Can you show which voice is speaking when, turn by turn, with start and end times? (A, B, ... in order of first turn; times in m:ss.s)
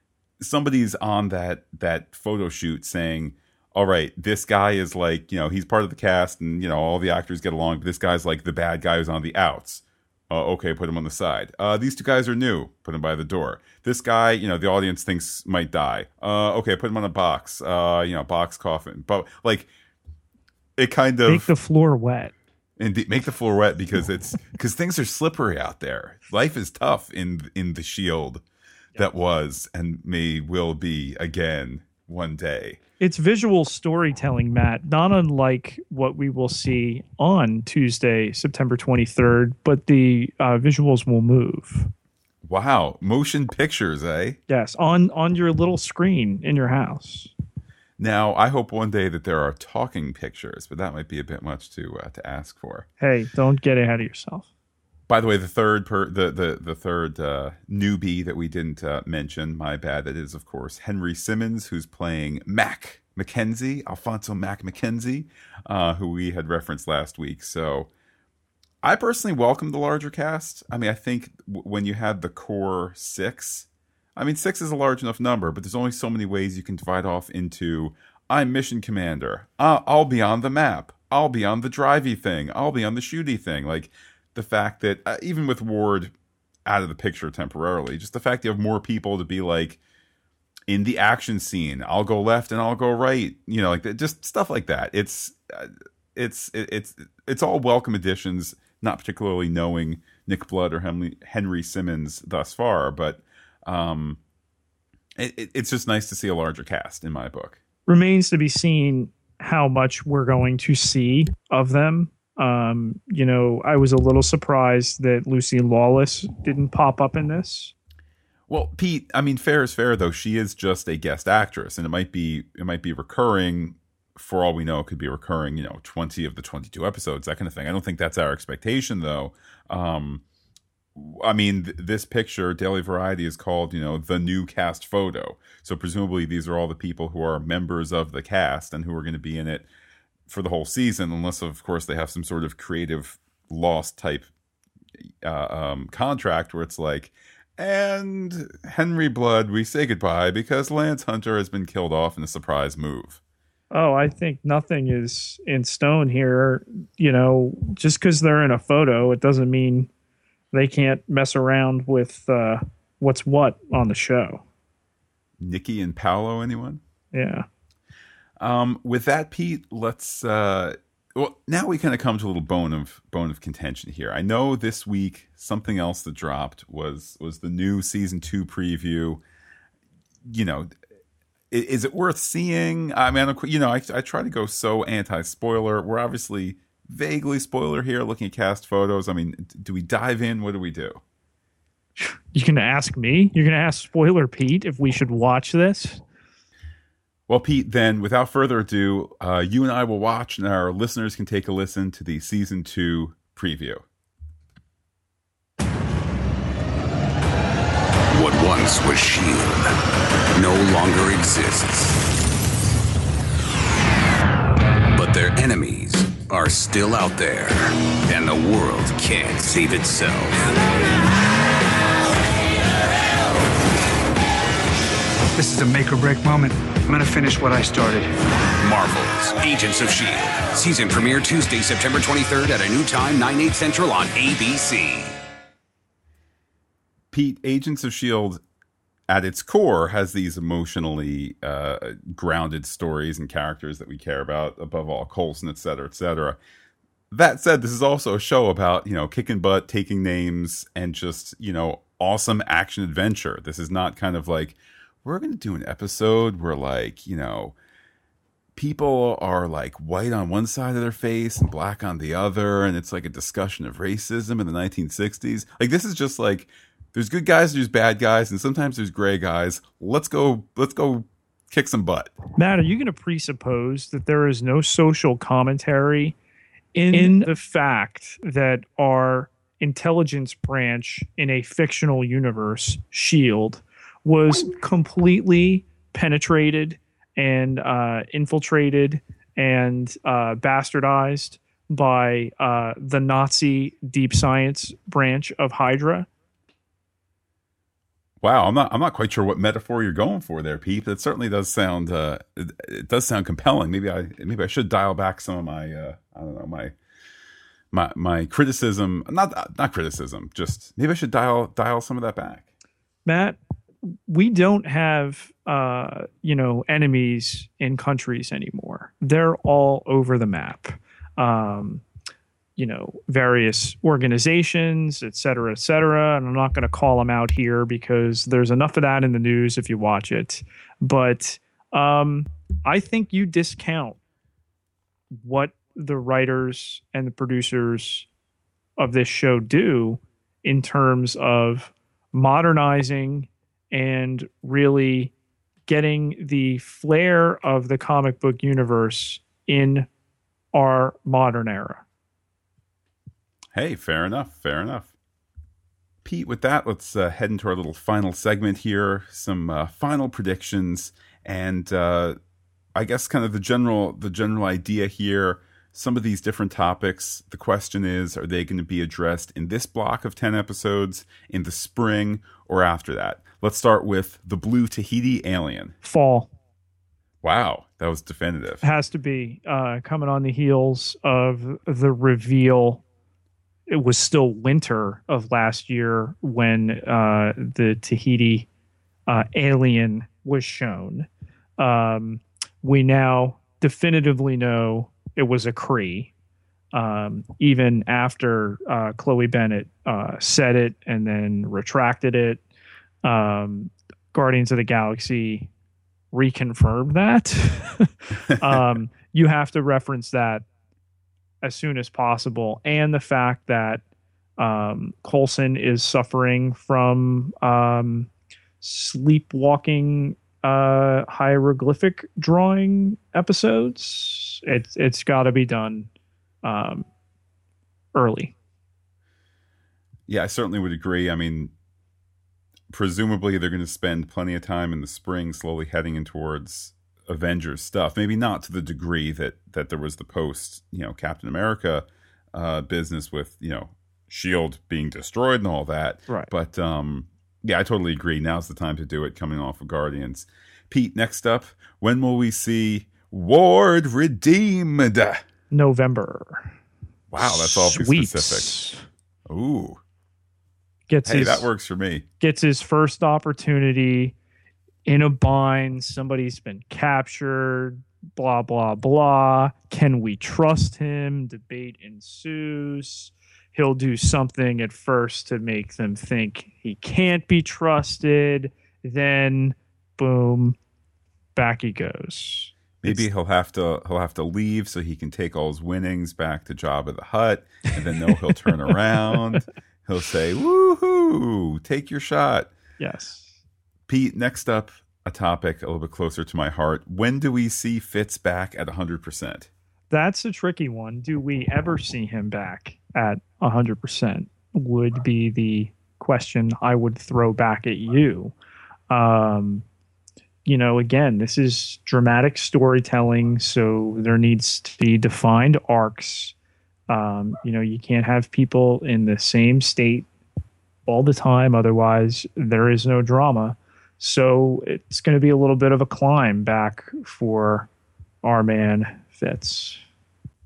0:00.4-0:19.7 A
0:20.8-0:21.5 A
0:21.2-0:22.3 B
0:22.8-0:28.4 A
0:29.0-0:32.8 A
0:33.0-0:41.9 B
0:42.4-0:44.4 A
0:44.5-0:47.3 B
0:48.0-0:52.8 A
0:53.0-0:54.5 B
0:55.1-1:07.9 A
1:08.8-1:26.1 A
1:26.6-1:29.8 A
1:30.7-1:44.2 A
1:45.2-1:47.6 A
1:47.9-1:57.7 B
1:58.5-2:10.2 A
2:10.9-2:19.7 A
2:20.3-2:24.3 A
2:25.2-2:33.2 A
2:33.7-2:39.9 B
2:40.5-2:44.4 B
2:45.4-2:46.8 A
2:47.1-2:47.4 B
2:48.4-2:59.2 A
3:00.2-3:00.7 A
3:01.5-3:11.0 A
3:12.0-3:16.0 B
3:17.3-3:23.8 A
3:28.1-3:29.7 C
3:30.3-3:32.0 C
3:34.9-3:40.4 C
3:45.4-3:48.1 D
3:48.6-3:55.2 C
3:57.1-3:58.4 A
3:59.1-4:06.4 A
4:07.1-4:17.5 A
4:18.6-4:32.1 A
4:32.4-4:36.2 B
4:36.7-4:56.1 B
4:58.2-5:06.7 A
5:07.7-5:12.5 A
5:13.0-5:21.8 B
5:22.6-5:34.0 B
5:35.2-5:38.1 B
5:38.8-5:45.1 B
5:45.6-5:49.9 B
5:50.5-5:51.8 B
5:53.5-5:54.9 A
5:56.0-6:02.2 A
6:02.7-6:15.7 A
6:15.8-6:16.3 B
6:17.2-6:18.6 A
6:18.6-6:22.8 B
6:23.7-6:28.5 B
6:29.1-6:36.1 B
6:36.7-6:42.4 B
6:43.0-6:45.5 B
6:46.1-6:50.4 B
6:51.4-6:53.8 B
6:54.4-6:58.1 B
6:58.6-7:05.9 B
7:06.4-7:06.9 B
7:07.9-7:08.3 B
7:10.1-7:11.5 A
7:12.7-7:35.2 A
7:35.5-7:36.6 B
7:37.1-7:38.5 A
7:37.2-7:38.8 B
7:39.3-7:39.8 A
7:40.9-7:41.5 B
7:41.0-7:42.0 A
7:42.2-7:44.1 B
7:44.8-8:00.6 B
8:01.3-8:03.1 B
8:02.8-8:12.5 A
8:12.8-8:13.4 B
8:13.9-8:19.5 A
8:19.9-8:28.3 B
8:28.9-8:29.6 B
8:30.4-8:36.3 B
8:36.9-8:40.1 B
8:40.8-8:47.7 B
8:48.2-8:49.8 B